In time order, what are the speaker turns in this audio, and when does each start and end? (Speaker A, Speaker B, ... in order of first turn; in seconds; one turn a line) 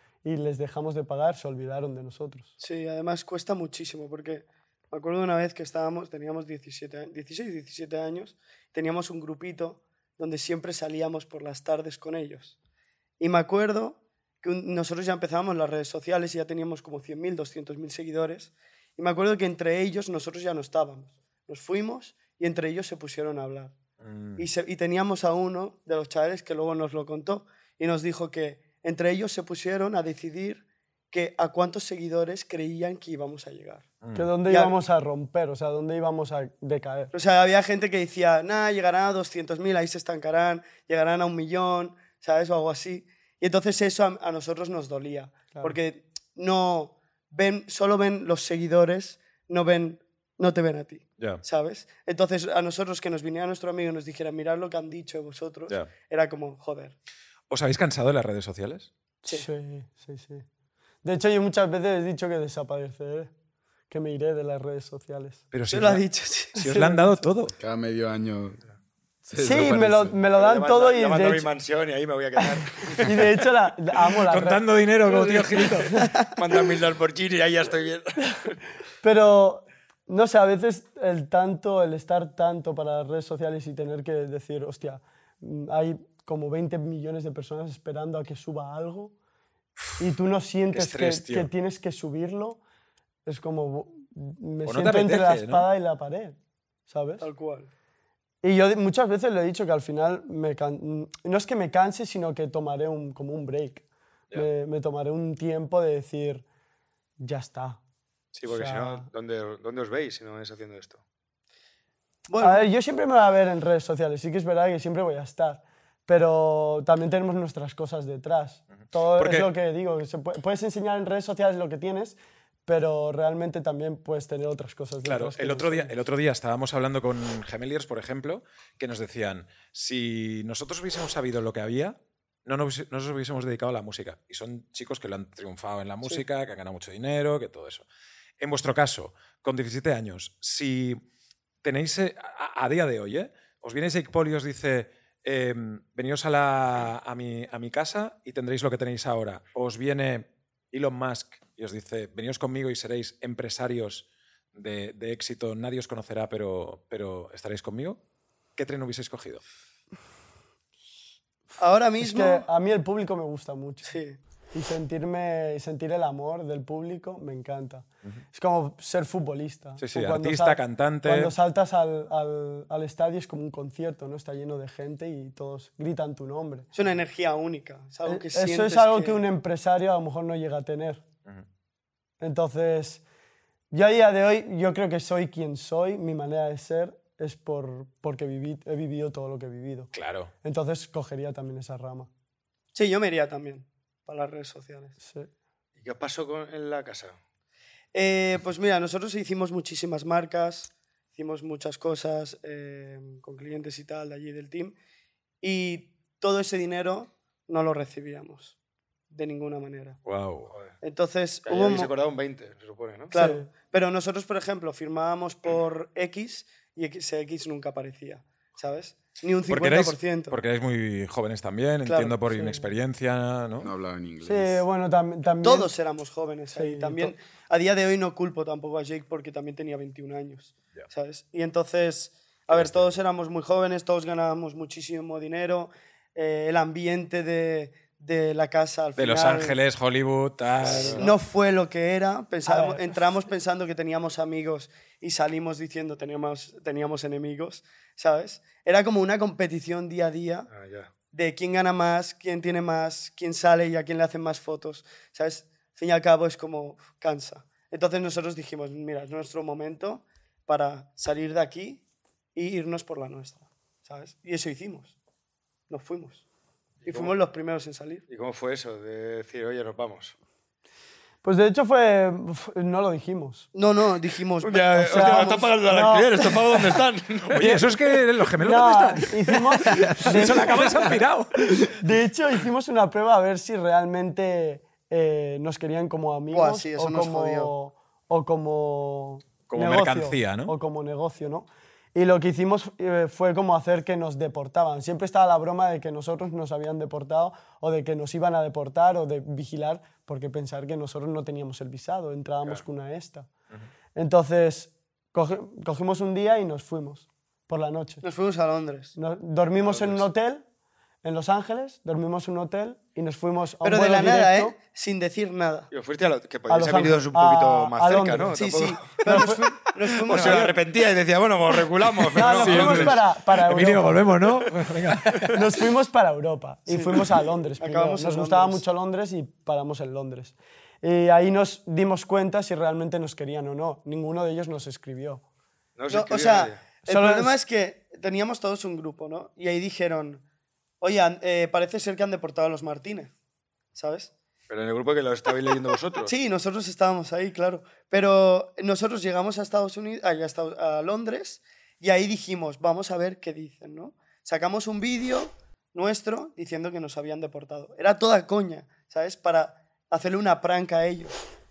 Speaker A: 0.2-2.5
Speaker B: 2.6-12.5
Speaker B: 13.2-23.7
Speaker C: 24.0-24.4
Speaker B: 24.4-33.9
Speaker C: 34.0-34.3
Speaker A: 34.1-37.1
Speaker B: 34.5-34.7
Speaker B: 37.1-56.9
Speaker A: 45.5-45.8
Speaker C: 57.5-58.9
Speaker A: 59.2-60.4
Speaker A: 61.0-63.3
Speaker A: 63.9-65.5
Speaker C: 65.5-67.5
Speaker B: 65.7-66.6
Speaker A: 66.6-67.2
Speaker D: 67.6-68.6
Speaker D: 69.2-70.2
Speaker A: 69.3-71.5
Speaker E: 70.3-73.3
Speaker A: 72.9-74.7
Speaker C: 74.3-76.0
Speaker E: 76.2-78.6
Speaker A: 79.0-89.1
Speaker A: 90.0-92.6
Speaker C: 90.7-91.5
Speaker A: 93.2-97.3
Speaker C: 94.6-95.7
Speaker B: 97.2-97.7
Speaker A: 98.4-106.4
Speaker A: 107.2-107.8
Speaker E: 108.3-111.0
Speaker A: 108.5-109.1
Speaker B: 112.3-112.7
Speaker A: 112.4-125.9
Speaker C: 119.2-119.5
Speaker C: 125.0-137.8
Speaker C: 138.4-141.0
Speaker C: 141.6-158.0
Speaker C: 158.6-159.4
Speaker B: 161.6-162.4
Speaker A: 162.0-164.0
Speaker B: 163.9-164.2
Speaker A: 164.5-176.7
Speaker C: 169.8-171.3
Speaker B: 176.7-179.2
Speaker A: 178.0-181.0
Speaker A: 182.2-183.0
Speaker A: 183.7-192.1
Speaker C: 189.9-190.3
Speaker B: 192.7-194.9
Speaker A: 195.0-195.3
Speaker E: 195.8-197.2
Speaker B: 197.9-204.7
Speaker B: 205.4-208.5
Speaker B: 209.1-210.0
Speaker C: 210.0-210.5
Speaker E: 210.5-210.8
Speaker B: 210.8-211.9
Speaker E: 211.4-213.1
Speaker B: 213.1-220.4
Speaker A: 213.1-213.5
Speaker C: 219.5-223.7
Speaker B: 221.8-222.2
Speaker A: 222.3-222.7
Speaker D: 223.6-224.6
Speaker A: 224.2-225.7
Speaker B: 225.4-239.6
Speaker A: 226.5-227.2
Speaker C: 232.5-233.0
Speaker C: 238.9-241.1
Speaker B: 240.6-250.5
Speaker E: 240.6-241.1
Speaker A: 242.4-242.9
Speaker E: 250.5-250.9
Speaker B: 251.1-261.8
Speaker B: 262.3-264.9
Speaker B: 265.7-266.2
Speaker E: 266.8-267.1
Speaker B: 266.9-268.0
Speaker E: 268.1-270.1
Speaker A: 271.2-273.5
Speaker B: 273.5-275.6
Speaker E: 274.4-277.6
Speaker A: 274.8-276.3
Speaker C: 277.3-281.4
Speaker A: 278.4-281.0
Speaker E: 279.7-279.9
Speaker A: 281.6-303.3
Speaker B: 286.3-287.5
Speaker C: 289.5-290.5
Speaker A: 303.9-308.0
Speaker B: 308.0-308.9
Speaker A: 308.9-310.4
Speaker E: 309.6-310.0
Speaker A: 311.0-314.5
Speaker B: 313.6-315.7
Speaker E: 315.7-323.0
Speaker A: 316.5-319.4
Speaker B: 318.3-320.6
Speaker A: 322.1-324.2
Speaker D: 322.3-323.0
Speaker C: 322.3-325.4
Speaker A: 325.3-335.2
Speaker B: 326.7-328.6
Speaker E: 335.8-336.6
Speaker B: 335.9-340.2
Speaker A: 336.8-337.4
Speaker B: 340.8-343.1
Speaker B: 343.7-344.1
Speaker E: 344.5-346.1
Speaker B: 346.0-361.2